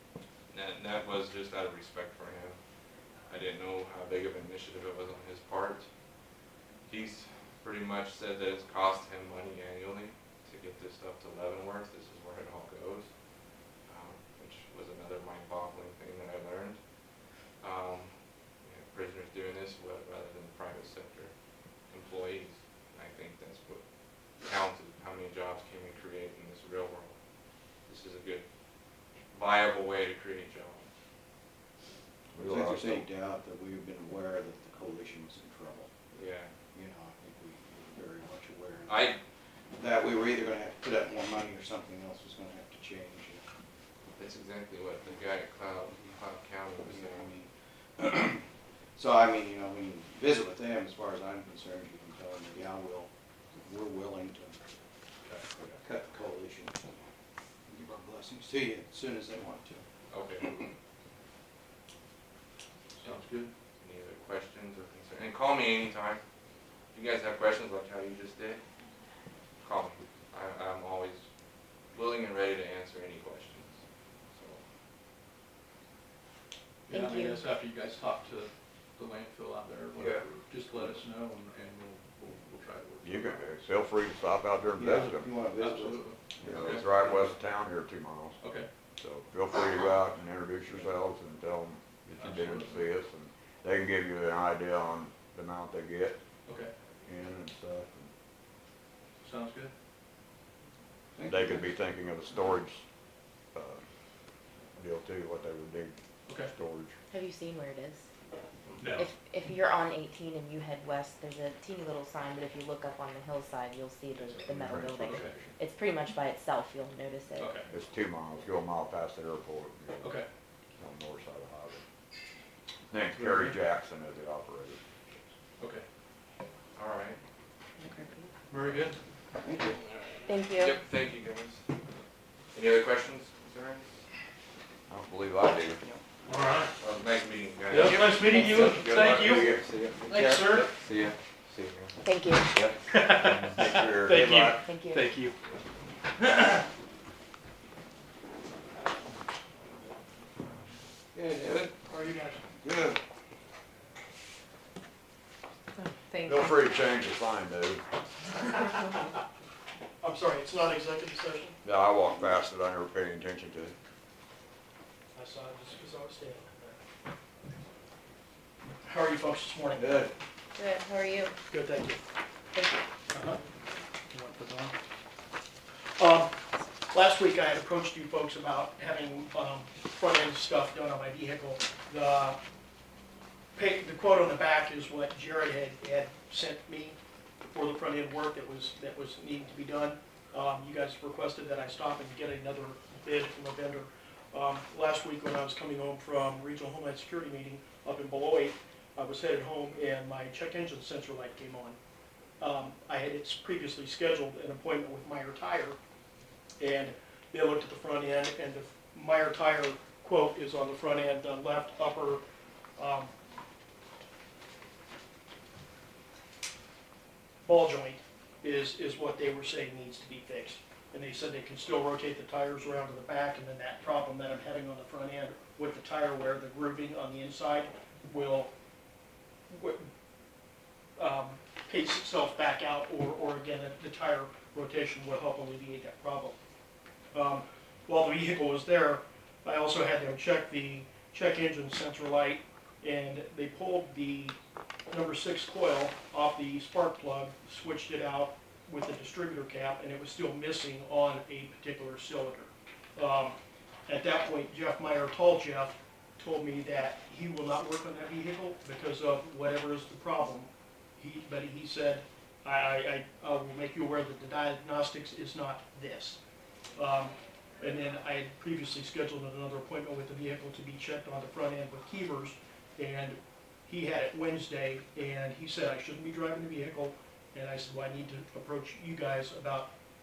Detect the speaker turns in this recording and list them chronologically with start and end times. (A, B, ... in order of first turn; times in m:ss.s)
0:00.5-0:02.6 A
0:03.2-0:05.9 A
0:06.9-0:13.1 A
0:13.8-0:16.8 A
0:17.6-0:21.4 A
0:21.9-0:23.8 A
0:24.4-0:27.2 A
0:27.9-0:28.4 A
0:29.3-0:30.9 A
0:32.3-0:33.1 B
0:32.4-0:35.9 C
0:36.1-0:36.5 A
0:36.7-0:39.2 C
0:38.9-0:39.2 A
0:39.8-0:43.4 C
0:44.2-0:47.4 A
0:46.8-0:48.4 C
0:49.0-0:54.6 C
0:55.8-0:57.0 C
0:57.7-0:59.8 C
1:00.1-1:00.6 A
1:03.0-1:03.5 D
1:03.8-1:06.2 A
1:06.9-1:08.6 A
1:09.6-1:11.2 A
1:11.9-1:13.8 A
1:14.4-1:14.6 A
1:16.9-1:23.6 D
1:16.9-1:17.5 E
1:23.0-1:25.3 B
1:24.8-1:27.0 C
1:25.6-1:27.3 D
1:26.4-1:28.4 B
1:28.4-1:28.7 D
1:29.0-1:36.2 B
1:32.2-1:32.9 D
1:36.5-1:36.7 D
1:37.0-1:38.1 B
1:39.2-1:39.7 D
1:41.2-1:41.7 C
1:41.3-1:42.8 B
1:43.5-1:43.8 B
1:44.8-1:46.0 B
1:46.3-1:46.5 D
1:46.5-1:47.0 B
1:47.1-1:48.1 E
1:48.7-1:49.1 D
1:49.0-1:57.7 E
1:54.2-1:55.4 D
1:54.4-1:55.6 B
1:57.4-1:57.7 D
1:57.7-2:00.2 B
2:00.0-2:00.3 D
2:00.8-2:01.8 B
2:02.9-2:04.8 B
2:03.1-2:03.6 D
2:05.6-2:05.8 D
2:06.8-2:07.2 A
2:07.8-2:08.3 E
2:08.5-2:09.0 D
2:09.4-2:09.8 C
2:09.6-2:11.7 A
2:10.3-2:10.8 E
2:12.5-2:14.0 A
2:14.9-2:15.8 B
2:16.3-2:16.7 D
2:16.8-2:22.0 A
2:17.7-2:20.8 D
2:17.9-2:18.7 E
2:18.5-2:19.7 B
2:22.0-2:22.5 E
2:22.9-2:25.4 D
2:23.3-2:24.6 B
2:24.6-2:25.1 E
2:26.2-2:26.6 D
2:31.1-2:31.8 C
2:31.9-2:32.4 D
2:32.6-2:33.0 C
2:35.9-2:36.5 E
2:36.2-2:37.8 B
2:40.0-2:41.6 F
2:41.6-2:43.8 B
2:45.1-2:46.8 F
2:48.8-2:50.1 F
2:49.8-2:50.1 C
2:50.6-2:51.4 E
2:51.5-2:52.0 F
2:52.5-2:52.9 E
2:53.1-2:53.4 F
2:54.1-2:54.7 D
2:56.0-3:02.4 F
3:03.6-3:21.8 F
3:22.4-3:25.8 F
3:26.6-3:32.2 F
3:32.8-3:33.1 F
3:37.5-3:48.5 F
3:49.5-3:49.8 F
3:51.0-3:56.4 F
3:57.1-4:04.4 F
4:04.9-4:13.4 F
4:13.9-4:26.2 F
4:26.8-4:39.7 F